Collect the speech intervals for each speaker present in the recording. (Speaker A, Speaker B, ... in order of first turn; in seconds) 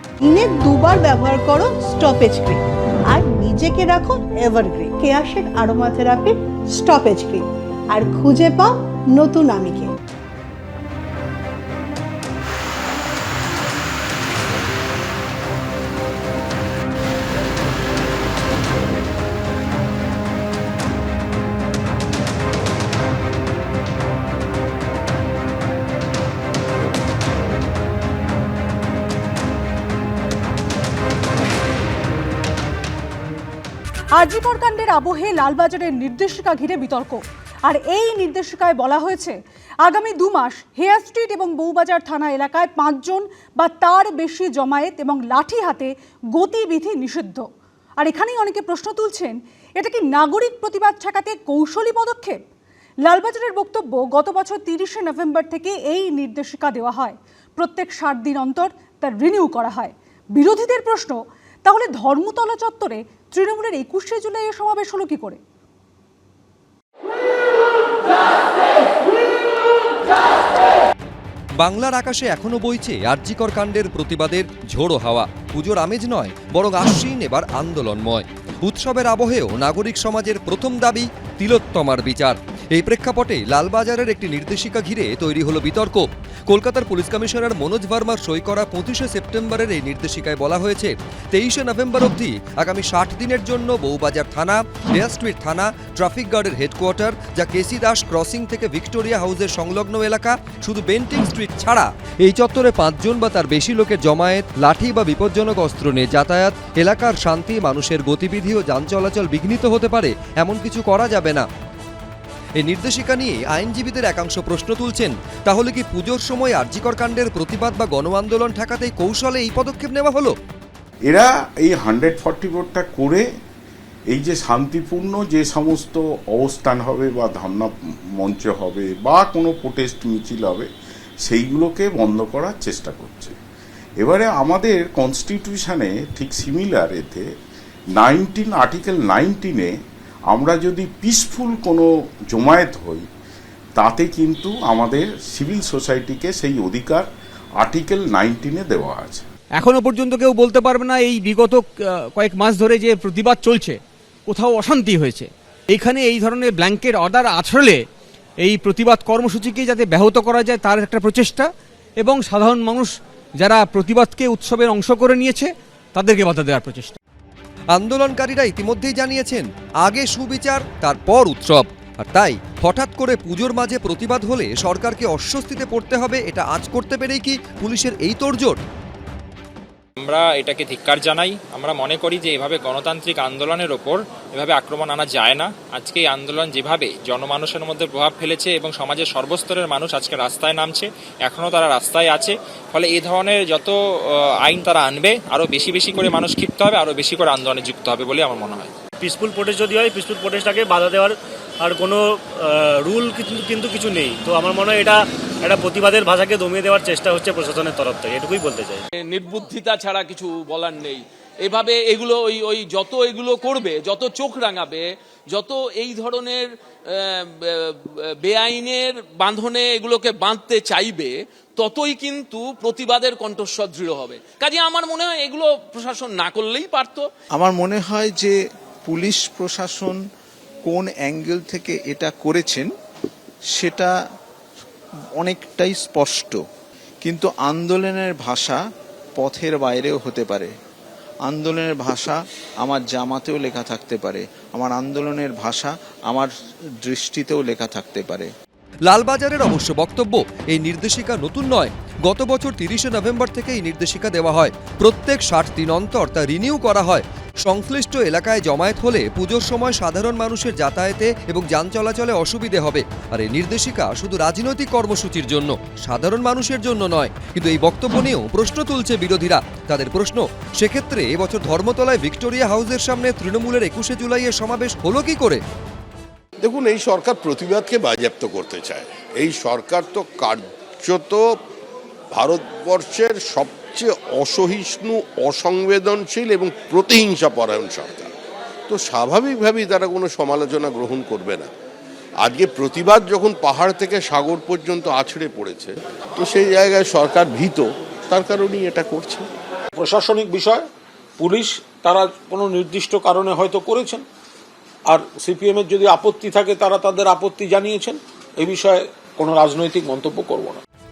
Speaker A: 0.2-9.9
Speaker B: 34.1-47.5, 48.0-52.4, 53.0-65.4
Speaker C: 71.6-111.5, 112.6-120.3, 167.7-178.6, 248.9-275.4
Speaker D: 121.1-123.2, 124.1-130.7, 131.2-133.3, 134.0-137.3, 138.0-139.7, 140.3-143.1, 143.8-147.1, 147.6-149.2
Speaker E: 149.6-157.8, 158.4-166.9
Speaker F: 180.0-193.7, 194.4-198.7
Speaker G: 199.0-208.8
Speaker H: 209.0-227.1
Speaker I: 227.3-230.0, 230.6-232.7, 233.5-233.9, 235.2-236.4, 237.0-238.6, 239.2-240.5, 241.2-246.3, 246.8-248.3
Speaker J: 276.4-281.2, 282.1-288.1, 288.7-291.5, 292.2-299.2
Speaker K: 299.8-300.6, 301.2-304.0, 304.9-310.6